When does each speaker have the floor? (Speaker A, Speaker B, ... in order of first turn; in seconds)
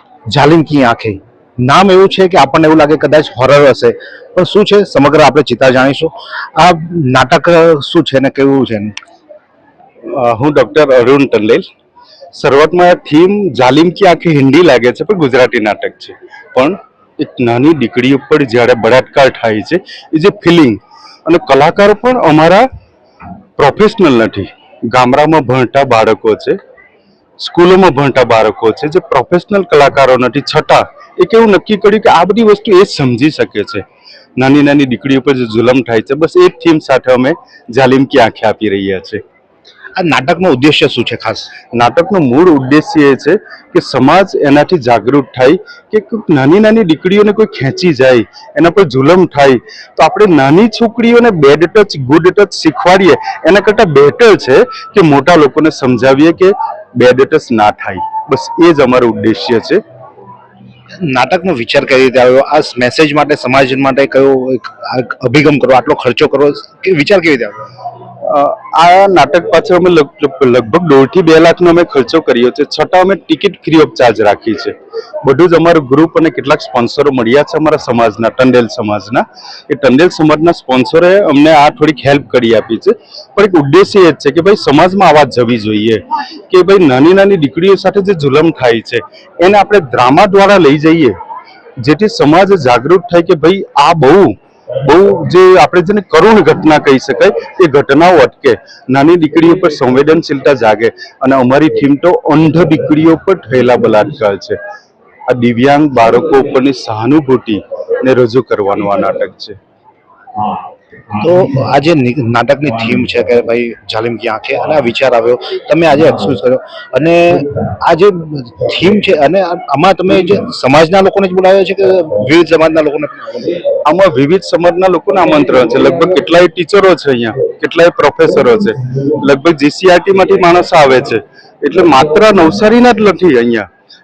Speaker A: 0.3-8.9, 40.0-41.5, 61.0-67.6, 111.2-123.5
Speaker B: 10.1-11.6, 12.3-22.6, 23.6-26.6, 27.4-33.8, 34.4-39.2, 41.7-59.8, 68.2-91.1, 91.8-104.6, 105.3-109.6, 123.8-133.7